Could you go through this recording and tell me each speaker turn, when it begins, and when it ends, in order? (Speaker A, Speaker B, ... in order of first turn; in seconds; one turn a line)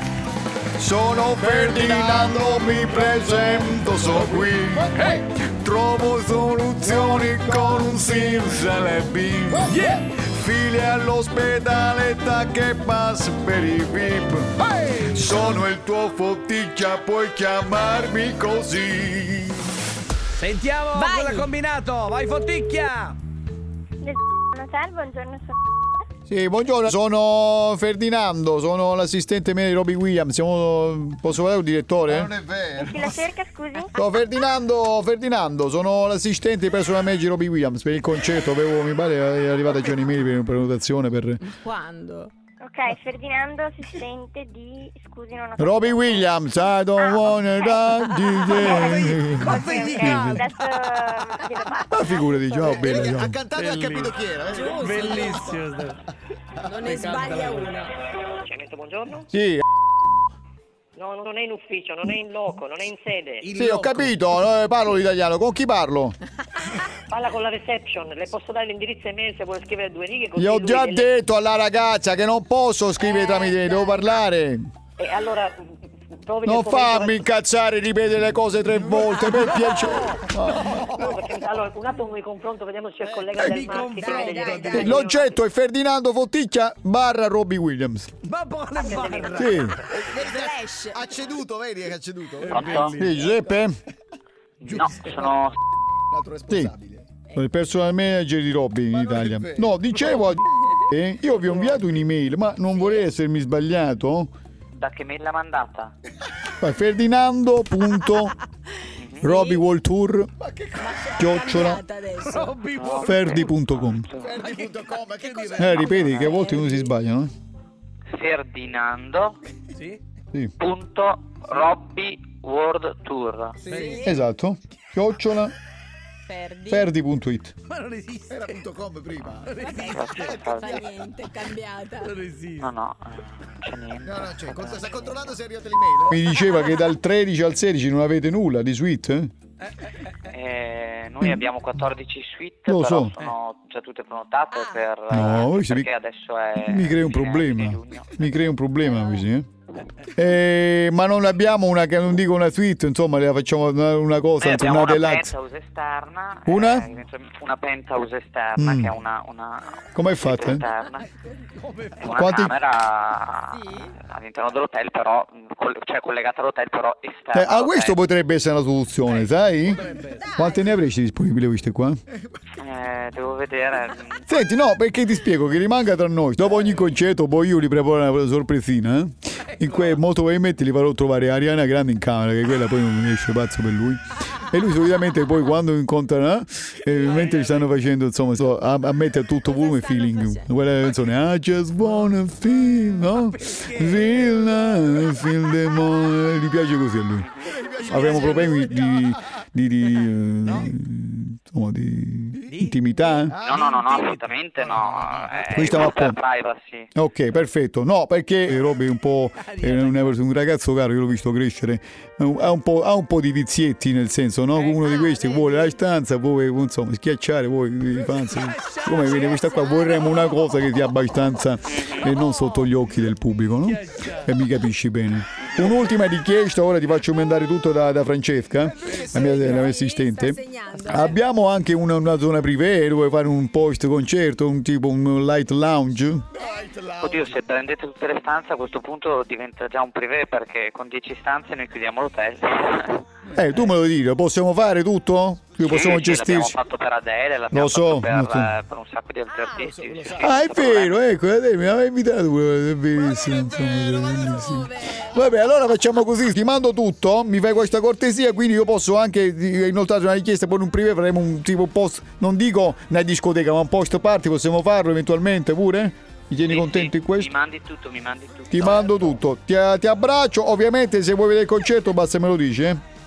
Speaker A: 0.8-19.7
Speaker B: 1.5-2.3
Speaker C: 9.7-10.0
Speaker C: 14.7-15.0
Speaker C: 20.4-23.2
Speaker D: 20.9-21.5
Speaker E: 24.0-25.6
Speaker A: 26.3-32.3
Speaker B: 32.1-33.0
Speaker E: 32.8-34.1
Speaker A: 34.0-41.4
Speaker D: 41.5-42.3
Speaker E: 42.6-46.4
Speaker A: 45.6-50.5
Speaker E: 47.0-52.9
Speaker C: 48.5-50.4
Speaker D: 49.5-50.1
Speaker A: 51.9-53.4
Speaker B: 52.6-55.7
Speaker C: 53.5-56.0
Speaker D: 54.5-55.2
Speaker D: 56.6-57.9
Speaker C: 56.9-57.7
Speaker F: 58.4-59.3
Speaker A: 59.3-59.6
Speaker F: 61.0-63.5
Speaker C: 63.4-64.2
Speaker A: 63.5-66.2
Speaker F: 67.0-71.1
Speaker A: 70.4-74.6
Speaker F: 73.1-73.9
Speaker F: 75.0-75.7
Speaker F: 76.2-77.2
Speaker A: 76.5-80.8
Speaker F: 79.2-85.4
Speaker C: 80.7-81.1
Speaker C: 83.4-84.9
Speaker D: 84.0-85.0
Speaker A: 84.7-88.1
Speaker C: 88.2-89.8
Speaker F: 88.8-90.0
Speaker A: 89.3-89.8
Speaker B: 89.9-93.6
Speaker D: 90.1-91.0
Speaker C: 92.4-93.1
Speaker G: 92.5-93.0
Speaker A: 92.9-93.7
Speaker G: 94.6-95.6
Speaker B: 94.7-95.4
Speaker B: 96.1-97.1
Speaker A: 96.5-96.7
Speaker A: 97.3-104.3
Speaker B: 98.9-100.1
Speaker G: 104.8-105.9
Speaker A: 106.6-108.3
Speaker G: 109.0-109.2
Speaker D: 109.2-109.7
Speaker A: 109.2-110.3
Speaker B: 110.4-111.0
Speaker D: 110.8-112.6
Speaker A: 111.2-111.8
Speaker C: 112.2-113.5
Speaker G: 112.8-114.4
Speaker A: 113.0-114.1
Speaker B: 114.2-116.0
Speaker C: 114.4-116.1
Speaker A: 115.6-117.3
Speaker D: 115.8-116.9
Speaker G: 118.1-119.4
Speaker C: 119.8-120.0
Speaker G: 120.6-123.6
Speaker B: 123.6-123.9
Speaker C: 123.7-124.1
Speaker D: 123.7-124.2
Speaker A: 124.0-125.5
Speaker D: 126.3-126.9
Speaker A: 126.7-127.5
Speaker C: 127.7-128.6
Speaker B: 128.3-129.6
Speaker C: 129.5-130.3
Speaker D: 129.6-132.2
Speaker G: 129.8-130.8
Speaker B: 130.2-130.9
Speaker C: 132.0-132.7
Speaker G: 132.6-135.3
Speaker B: 134.0-136.2
Speaker A: 136.1-139.3
Speaker G: 140.3-148.2
Speaker A: 141.2-141.5
Speaker A: 142.7-143.1
Speaker A: 145.1-145.9
Speaker A: 146.6-149.5
Speaker A: 150.2-155.3
Speaker G: 154.4-161.1
Speaker A: 156.5-156.9
Speaker A: 158.6-159.0
Speaker A: 159.9-160.7
Speaker C: 161.6-162.2
Speaker G: 162.0-168.0
Speaker A: 162.1-162.6
Speaker D: 163.5-163.9
Speaker A: 167.3-172.0
Speaker C: 169.7-170.3
Speaker D: 170.1-170.7
Speaker G: 172.6-174.3
Speaker A: 174.3-197.3
Speaker C: 179.6-180.0
Speaker C: 186.8-187.7
Speaker D: 189.5-190.5
Speaker C: 193.0-195.1
Speaker G: 197.2-197.6
Speaker B: 197.5-199.2
Speaker A: 197.8-203.4
Speaker C: 200.4-200.7
Speaker C: 202.5-202.8
Speaker B: 203.3-203.7
Speaker G: 203.4-206.9
Speaker C: 203.5-204.2
Speaker B: 204.8-205.4
Speaker A: 205.5-206.2
Speaker A: 206.9-236.3
Speaker C: 209.4-210.2
Speaker C: 214.6-215.5
Speaker C: 217.9-220.6
Speaker G: 221.7-222.1
Speaker C: 223.6-224.3
Speaker G: 225.4-225.7
Speaker D: 228.8-231.2
Speaker B: 236.4-237.3
Speaker G: 237.0-243.1
Speaker A: 243.3-246.6
Speaker G: 245.6-251.0
Speaker A: 247.5-248.5
Speaker D: 249.3-249.7
Speaker B: 249.7-250.8
Speaker A: 250.2-267.3
Speaker D: 253.0-255.3
Speaker G: 266.5-269.1
Speaker A: 268.5-272.8